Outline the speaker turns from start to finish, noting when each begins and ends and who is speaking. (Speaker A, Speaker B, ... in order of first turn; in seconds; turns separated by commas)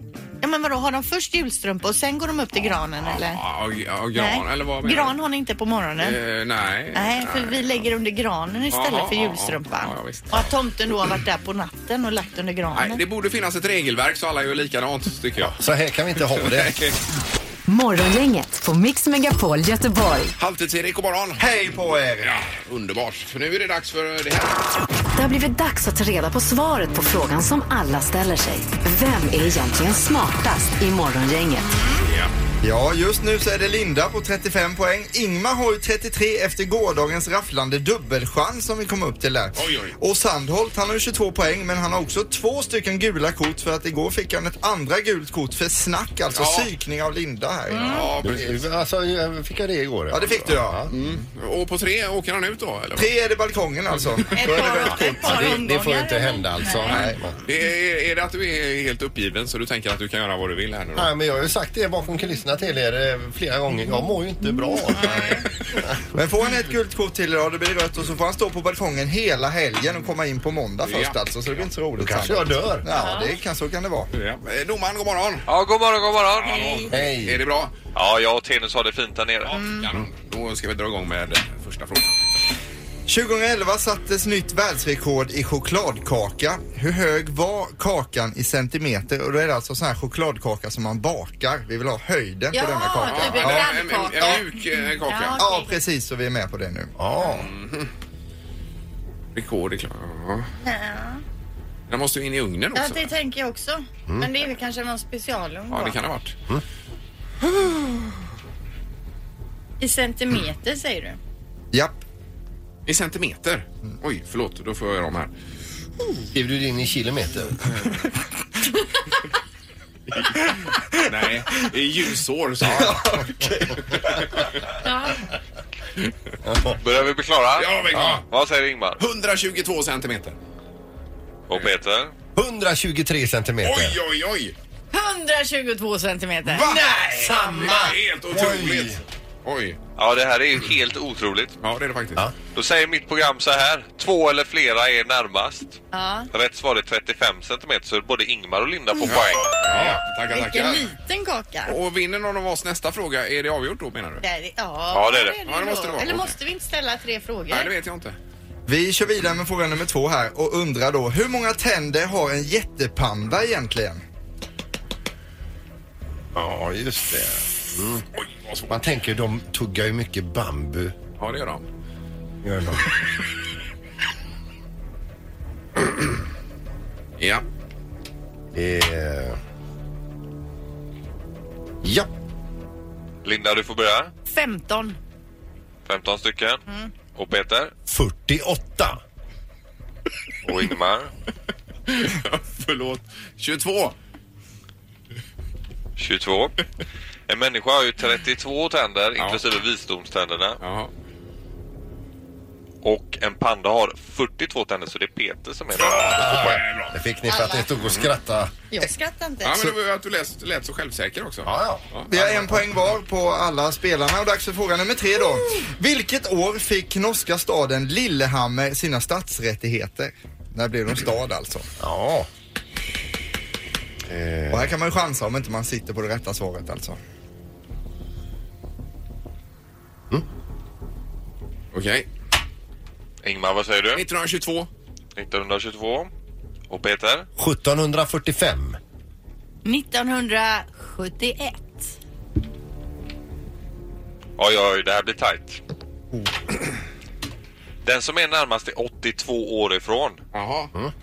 Speaker A: 0.4-3.4, Speaker B: 3.0-5.2, Speaker A: 4.1-6.2, Speaker B: 6.0-7.7, Speaker A: 6.9-13.0, Speaker B: 8.7-10.5, Speaker B: 12.7-15.6, Speaker C: 15.4-16.8, Speaker B: 16.4-17.0, Speaker D: 17.7-20.3, Speaker B: 20.4-21.4, Speaker E: 21.4-22.4, Speaker B: 22.2-24.6, Speaker D: 25.2-31.7, Speaker A: 31.6-32.1, Speaker B: 32.0-32.3, Speaker E: 32.6-48.1, Speaker B: 39.5-40.0, Speaker B: 46.3-46.7, Speaker A: 47.7-48.1, Speaker B: 47.8-48.6, Speaker C: 48.2-50.9, Speaker E: 50.1-51.2, Speaker B: 50.9-53.1, Speaker E: 53.0-55.6, Speaker A: 54.3-57.0, Speaker C: 54.6-57.4, Speaker E: 56.9-57.2, Speaker B: 57.4-61.1, Speaker C: 61.0-66.0, Speaker A: 64.9-65.5, Speaker E: 66.1-74.1, Speaker B: 70.8-71.7, Speaker C: 72.0-72.8, Speaker A: 72.9-73.3, Speaker B: 74.1-75.5, Speaker F: 75.5-76.8, Speaker B: 76.4-77.7, Speaker A: 76.4-76.8, Speaker C: 76.9-77.4, Speaker F: 77.9-79.6, Speaker B: 79.5-82.1, Speaker A: 79.5-79.8, Speaker E: 83.1-94.4, Speaker A: 92.5-95.8, Speaker B: 93.0-95.4, Speaker E: 95.4-96.9, Speaker C: 97.0-97.5, Speaker B: 97.2-97.9, Speaker B: 99.3-100.5, Speaker A: 100.6-101.2, Speaker B: 101.9-103.1, Speaker A: 102.7-106.0, Speaker B: 105.7-106.3, Speaker A: 109.8-111.2, Speaker E: 111.7-112.0, Speaker B: 112.9-115.3, Speaker C: 116.3-117.6, Speaker B: 120.3-123.0, Speaker E: 122.6-124.2, Speaker C: 122.7-123.5, Speaker A: 124.8-125.2, Speaker C: 126.4-126.8, Speaker F: 126.8-129.0, Speaker B: 127.6-128.2, Speaker C: 127.9-128.2, Speaker B: 129.0-130.4, Speaker F: 131.5-132.1, Speaker C: 132.3-134.0, Speaker B: 133.6-134.5, Speaker A: 134.9-136.7, Speaker B: 136.5-139.8, Speaker C: 136.6-139.0, Speaker F: 140.0-141.5, Speaker B: 141.6-142.2, Speaker F: 142.5-145.8, Speaker A: 145.9-146.3, Speaker F: 146.3-149.6, Speaker B: 149.0-150.9, Speaker C: 149.7-150.0, Speaker A: 150.3-151.7, Speaker B: 151.7-154.2, Speaker A: 154.2-157.7, Speaker F: 154.9-155.4, Speaker B: 155.4-156.3, Speaker B: 157.5-158.2, Speaker E: 158.7-164.0, Speaker C: 166.3-168.0, Speaker B: 168.2-168.8, Speaker C: 168.7-170.9, Speaker B: 171.2-171.7, Speaker C: 172.4-172.9, Speaker C: 178.5-179.4, Speaker C: 181.8-182.1, Speaker F: 183.2-184.1, Speaker A: 184.2-185.0, Speaker F: 185.8-186.6, Speaker F: 187.1-187.7, Speaker C: 187.9-189.0, Speaker F: 190.4-191.1, Speaker B: 191.9-193.9, Speaker F: 196.0-196.6, Speaker F: 197.3-200.6, Speaker B: 199.2-199.4, Speaker B: 200.6-200.9, Speaker F: 202.8-206.5, Speaker B: 205.7-206.9, Speaker C: 206.1-208.5, Speaker A: 207.3-207.6, Speaker B: 207.8-208.1, Speaker A: 208.7-209.7, Speaker B: 209.4-212.1, Speaker C: 211.4-212.6, Speaker E: 212.1-221.7, Speaker C: 221.8-222.3, Speaker C: 224.1-224.7, Speaker E: 224.5-227.0, Speaker B: 231.7-232.1, Speaker F: 233.2-234.0, Speaker B: 233.9-234.7, Speaker F: 235.2-236.1, Speaker F: 236.7-237.3, Speaker C: 237.4-238.8, Speaker A: 239.6-241.9, Speaker F: 244.4-245.6, Speaker F: 247.8-250.2, Speaker B: 250.3-250.7